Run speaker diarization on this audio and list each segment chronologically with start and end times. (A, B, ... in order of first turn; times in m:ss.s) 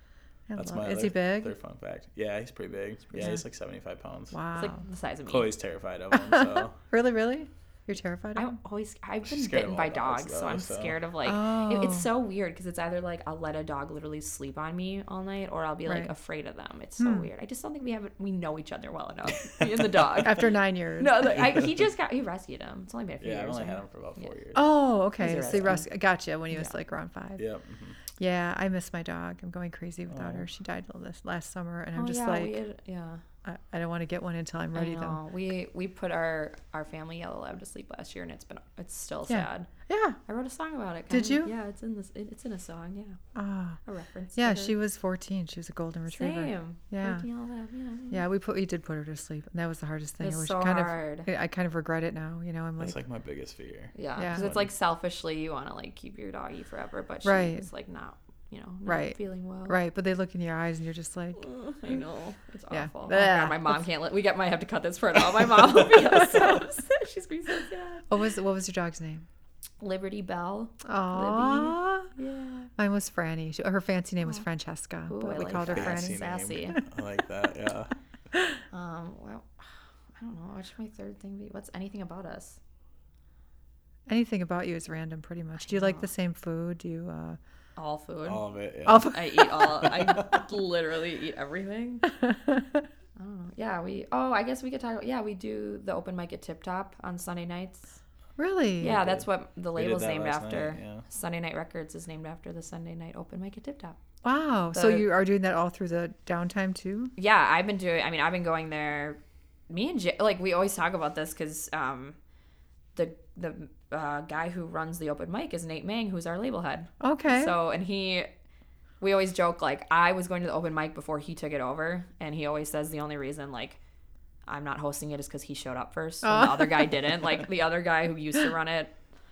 0:00.5-0:01.5 A
0:00.6-0:04.4 B
0:03.2-0:03.4 A
0:04.3-0:04.8 A
0:04.5-0:05.5 C
0:05.2-0:06.8 B
0:06.1-0:08.6 A
0:08.4-0:20.4 C
0:09.2-0:11.0 B
0:11.2-0:12.1 A
0:15.8-0:16.1 A
0:17.0-0:17.3 A
0:20.2-0:21.6 A
0:21.0-0:24.3 C
0:23.2-0:24.6 B
0:24.5-0:27.4 A
0:25.2-0:25.8 C
0:27.4-0:28.0 B
0:28.2-0:32.5 A
0:30.1-0:30.4 B
0:31.9-0:33.2 C
0:33.4-0:35.2 A
0:34.7-0:39.7 C
0:39.3-0:40.2 A
0:40.3-0:43.2 C
0:41.1-0:41.5 A
0:43.3-0:43.8 A
0:43.8-0:44.8 C
0:44.3-0:47.2 A
0:46.1-0:48.2 C
0:48.1-0:53.0 A
0:50.2-0:51.3 C
0:52.8-0:54.7 B
0:53.9-0:59.8 C
0:54.2-0:54.4 A
0:57.2-0:57.7 A
0:58.8-1:02.0 A
1:01.4-1:08.0 C
1:02.7-1:03.8 A
1:06.1-1:06.6 A
1:08.1-1:09.2 A
1:09.8-1:12.7 C
1:10.8-1:12.1 A
1:12.8-1:16.2 A
1:15.1-1:16.8 C
1:15.6-1:17.9 B
1:18.7-1:22.6 C
1:24.1-1:27.4 A
1:25.6-1:26.1 C
1:27.8-1:28.4 C
1:28.2-1:30.4 B
1:28.8-1:29.5 A
1:29.0-1:32.1 C
1:32.1-1:32.9 A
1:33.2-1:38.0 C
1:38.4-1:39.0 A
1:38.8-1:44.0 C
1:38.9-1:41.0 B
1:44.2-1:47.1 A
1:44.7-1:45.0 C
1:47.2-1:52.2 C
1:52.9-1:58.3 C
1:57.0-1:57.5 A
1:59.0-2:03.8 C
2:04.5-2:08.9 C
2:06.2-2:06.9 A